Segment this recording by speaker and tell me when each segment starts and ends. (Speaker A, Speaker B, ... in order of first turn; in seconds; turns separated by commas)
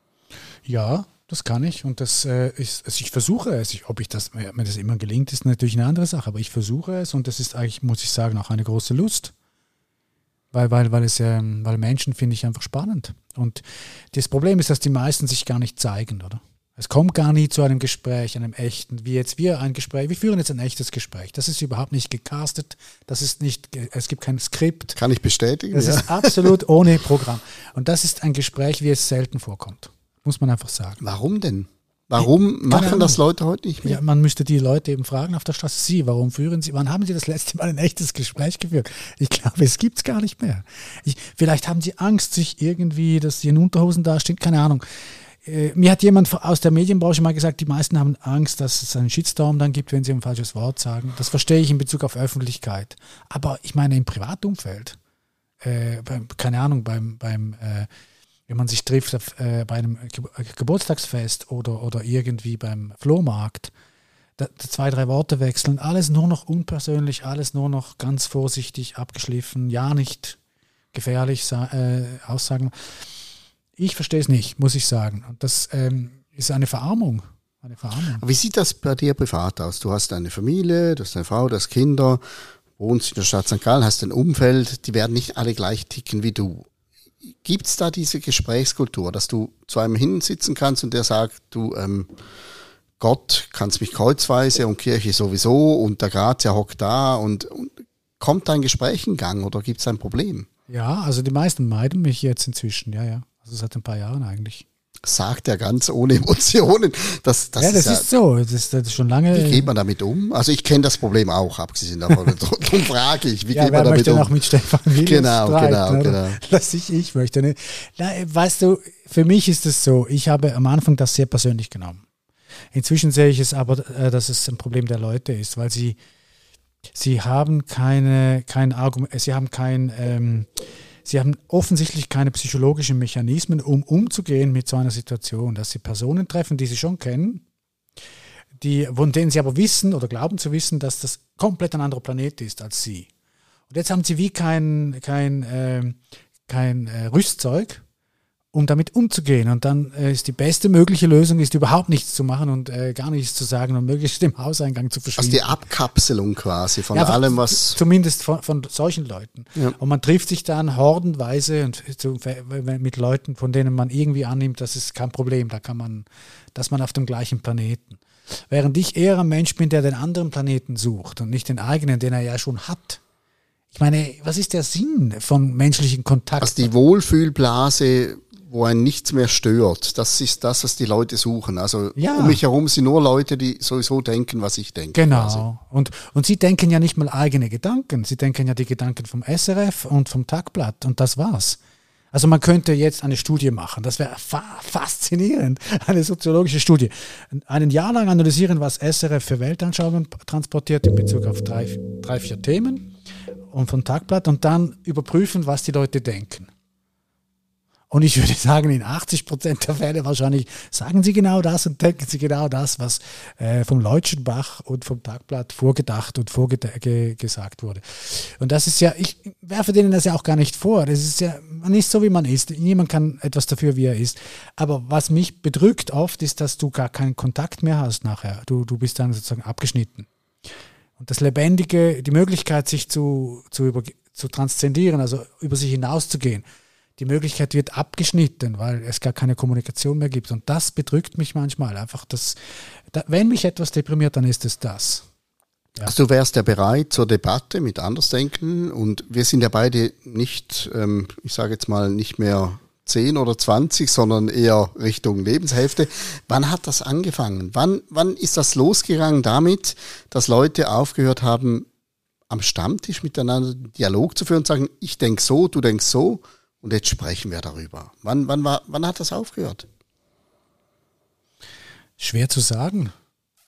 Speaker A: 0.7-9.3, Speaker A: 10.5-25.0, Speaker B: 24.9-26.5, Speaker A: 25.7-31.0, Speaker B: 31.0-34.0, Speaker A: 32.2-33.2, Speaker A: 33.8-44.8, Speaker A: 45.4-55.0, Speaker A: 55.6-57.9, Speaker A: 58.5-63.7, Speaker A: 64.4-70.4, Speaker A: 70.9-72.8, Speaker A: 73.8-78.2, Speaker B: 78.2-82.2, Speaker B: 82.8-86.7, Speaker B: 87.4-92.1, Speaker B: 93.0-100.5, Speaker A: 100.7-104.7, Speaker B: 105.0-108.1, Speaker A: 107.6-109.7, Speaker B: 109.3-114.3, Speaker A: 113.5-122.0, Speaker B: 115.0-116.4, Speaker A: 122.7-126.0, Speaker A: 127.0-137.4, Speaker A: 138.6-143.1, Speaker A: 143.7-147.8, Speaker A: 148.5-155.7, Speaker B: 155.2-157.8, Speaker A: 156.9-173.0, Speaker A: 173.7-176.7, Speaker B: 176.4-185.4, Speaker A: 182.0-182.4, Speaker A: 184.9-191.6, Speaker A: 192.1-202.9, Speaker A: 203.5-206.5, Speaker A: 207.9-230.1, Speaker A: 231.0-236.4, Speaker A: 237.0-242.4, Speaker A: 242.9-245.1, Speaker B: 245.8-261.7, Speaker B: 262.3-269.7, Speaker A: 272.0-272.9